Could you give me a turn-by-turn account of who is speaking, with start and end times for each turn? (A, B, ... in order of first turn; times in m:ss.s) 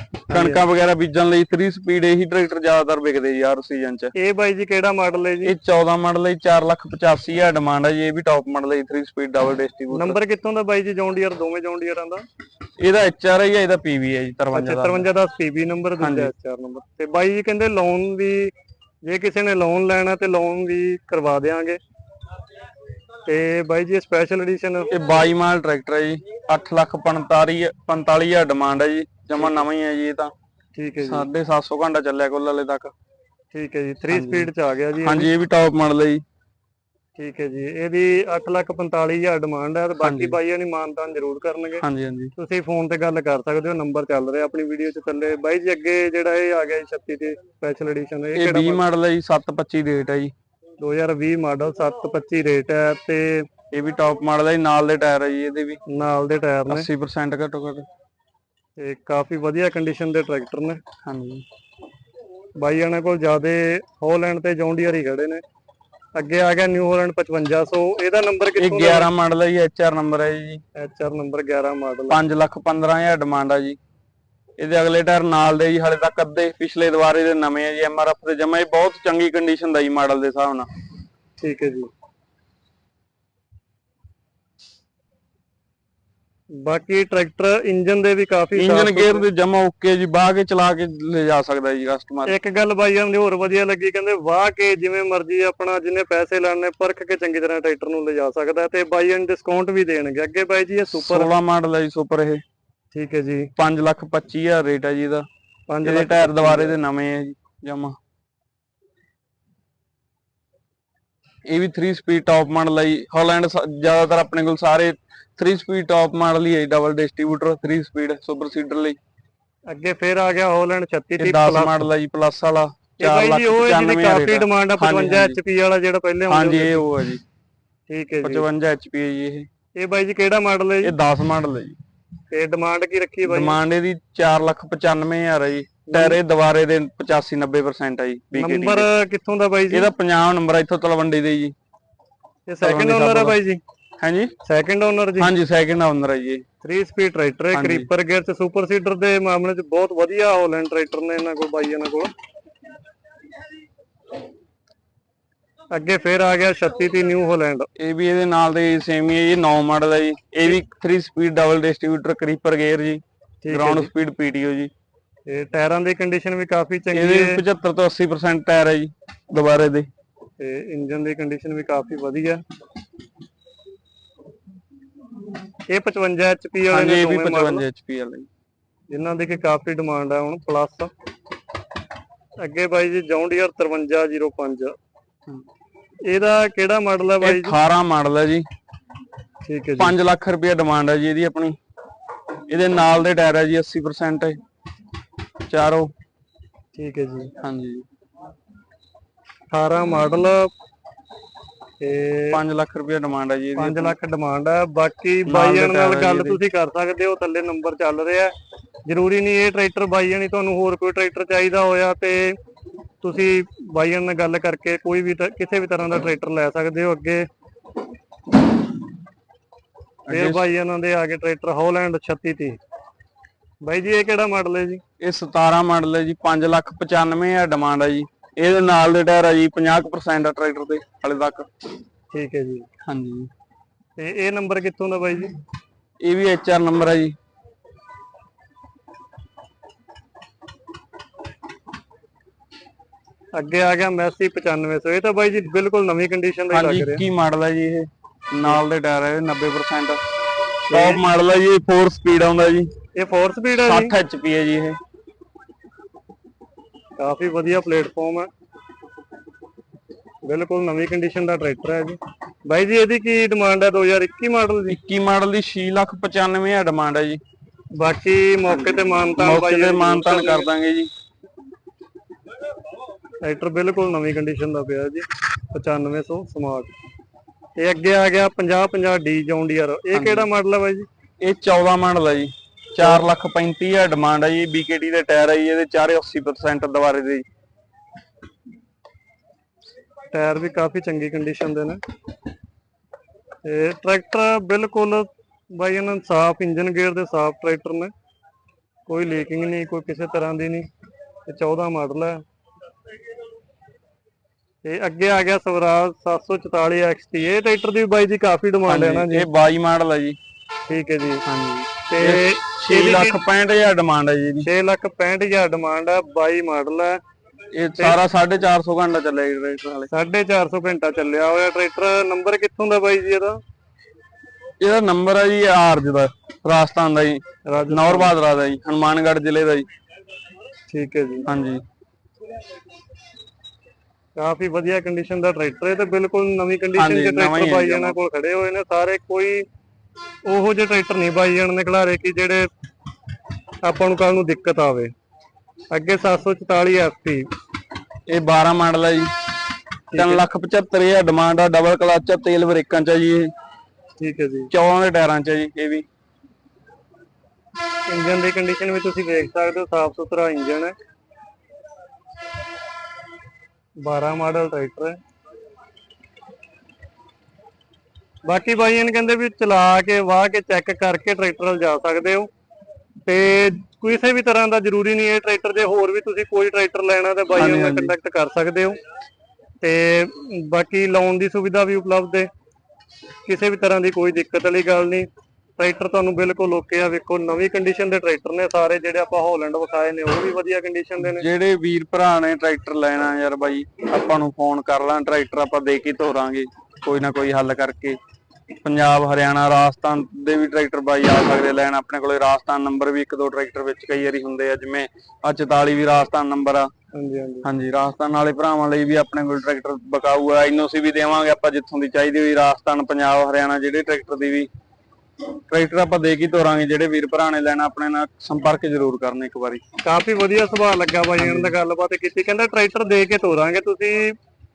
0:00.3-0:04.1 A
0:00.3-0:00.6 B
0:04.2-0:05.5 B
0:05.4-0:10.2 A
0:09.9-0:12.2 B
0:12.8-0:15.1 A
0:14.5-0:18.5 B
0:16.0-0:16.3 A
0:19.0-0:21.8 B
0:23.3-0:24.9 B
0:24.9-0:30.3 A
0:29.4-0:29.7 B
0:30.8-0:31.3 B
0:31.0-0:32.9 A
0:33.5-0:35.3 B
0:34.1-0:34.5 A
0:35.0-0:36.2 A
0:37.2-0:41.8 B
0:40.0-0:40.4 A
0:41.8-0:42.3 A
0:42.4-0:48.8 B
0:48.4-0:50.3 A
0:50.8-0:53.5 B
0:53.7-0:55.8 A
0:55.9-0:56.9 B
0:56.7-0:57.9 A
0:58.8-1:00.8 B
1:01.0-1:01.4 A
1:02.6-1:05.4 B
1:06.2-1:09.1 B
1:08.6-1:10.6 A
1:10.8-1:12.2 B
1:12.1-1:13.8 A
1:14.6-1:20.7 A
1:21.4-1:21.9 B
1:26.6-1:29.3 B
1:28.6-1:32.4 A
1:32.3-1:41.3 B
1:40.9-1:42.4 A
1:42.9-1:43.5 B
1:43.6-1:45.3 A
1:45.7-1:46.8 B
1:45.8-1:48.0 A
1:51.5-1:59.0 A
1:59.7-2:01.8 B
2:01.2-2:05.4 A
2:03.0-2:06.8 B
2:06.3-2:07.2 A
2:07.9-2:08.4 B
2:08.2-2:09.5 A
2:09.8-2:10.9 B
2:10.8-2:11.8 A
2:12.3-2:13.6 B
2:13.3-2:18.9 A
2:15.9-2:16.2 B
2:18.3-2:19.9 B
2:19.7-2:21.5 A
2:22.5-2:23.6 B
2:22.6-2:23.4 A
2:24.0-2:24.3 A
2:24.4-2:25.3 B
2:25.2-2:26.4 A
2:26.6-2:32.1 B
2:27.5-2:27.9 A
2:35.7-2:37.7 B
2:37.8-2:44.7 A
2:43.4-2:43.9 B
2:45.3-2:47.4 B
2:46.9-2:49.9 A
2:50.4-2:52.4 B
2:55.7-2:57.6 B
2:56.7-2:58.3 A
2:58.9-3:00.9 B
3:02.4-3:04.8 B
3:06.1-3:07.6 B
3:07.2-3:08.5 A
3:09.5-3:10.0 B
3:09.8-3:11.6 A
3:12.5-3:14.4 A
3:15.5-3:15.9 A
3:16.8-3:17.3 B
3:17.4-3:17.9 A
3:19.5-3:20.5 B
3:21.8-3:22.4 B
3:22.3-3:23.9 A
3:23.6-3:28.3 B
3:25.3-3:26.4 A
3:28.9-3:32.4 B
3:33.0-3:37.3 B
3:40.1-3:40.5 A
3:40.1-3:42.6 B
3:43.6-3:44.8 B
3:45.0-3:51.5 A
3:52.1-3:52.7 B
3:52.8-3:53.3 A
3:54.0-3:55.3 B
3:56.0-3:57.2 A
4:03.3-4:07.0 B
4:06.5-4:10.0 A
4:10.7-4:11.0 B
4:10.7-4:12.7 A
4:13.0-4:14.0 B
4:13.6-4:14.8 A
4:17.0-4:18.3 B
4:20.2-4:24.8 B
4:24.7-4:27.2 A
4:27.8-4:30.5 B
4:28.5-4:30.9 A
4:33.2-4:36.7 B
4:37.6-4:40.9 B
4:39.9-4:40.3 A
4:41.2-4:47.2 A
4:42.8-4:43.1 B
4:50.1-4:51.8 B
4:53.4-4:57.9 B
4:58.9-5:00.7 B
5:01.3-5:02.2 B
5:04.6-5:09.3 B
5:08.7-5:10.2 A
5:10.7-5:11.2 B
5:11.3-5:14.5 A
5:11.9-5:13.2 B
5:14.4-5:17.0 B
5:17.5-5:19.9 A
5:19.9-5:23.4 B
5:24.6-5:29.7 A
5:27.5-5:28.1 B
5:30.7-5:31.3 B
5:31.3-5:31.6 A
5:34.2-5:39.5 B
5:36.8-5:38.0 A
5:40.2-5:42.5 B
5:43.6-5:44.9 B
5:45.7-5:47.3 B
5:48.1-5:49.1 A
5:49.9-5:50.2 B
5:50.0-5:53.3 A
5:54.0-5:54.5 B
5:54.5-5:55.9 A
5:57.9-6:00.8 B
6:03.8-6:05.0 B
6:08.2-6:12.3 B
6:13.1-6:18.8 B
6:17.3-6:17.9 A
6:19.6-6:22.3 B
6:23.3-6:31.3 B
6:31.0-6:38.0 A
6:38.6-6:46.7 A
6:46.9-6:47.5 B
6:47.4-6:54.5 A
6:55.5-6:59.6 A
6:59.8-7:04.2 B
7:01.2-7:01.6 A